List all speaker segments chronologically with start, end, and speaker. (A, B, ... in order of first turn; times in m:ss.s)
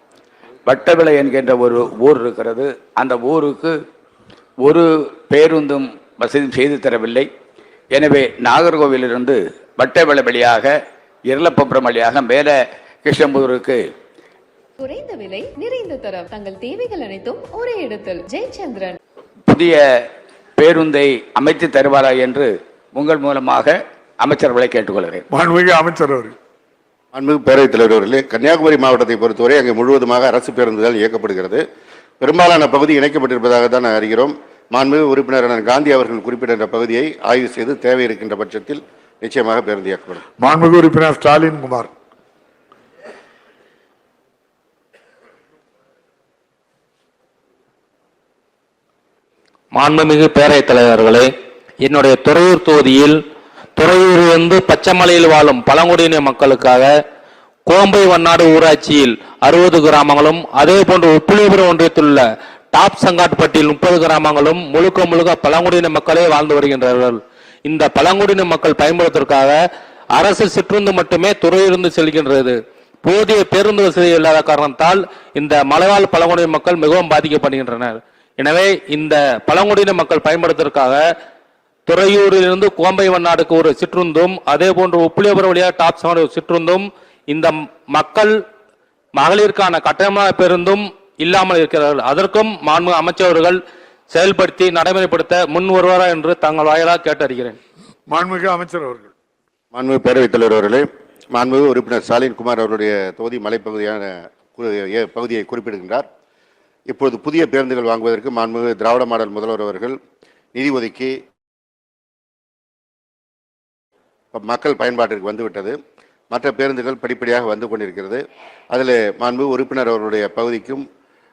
0:00.7-0:03.8 A
0:04.6-0:07.3 A
0:07.9-0:10.8 A
0:11.3-0:13.8 A
0:14.8-0:19.0 B
0:19.5-0:25.2 A
0:25.3-0:26.4 C
0:27.1-0:31.6 D
0:32.2-0:40.2 D
0:40.4-0:41.9 C
0:49.7-0:51.3 E
0:51.8-0:53.2 E
0:53.8-0:56.9 E
0:57.7-1:09.6 E
1:10.1-1:21.0 E
1:21.9-1:28.3 E
1:29.2-1:37.6 E
1:38.1-1:39.1 C
1:39.7-1:46.0 D
1:46.9-1:50.0 D
1:50.5-1:51.1 D
1:54.3-1:55.8 D
1:56.3-2:00.8 D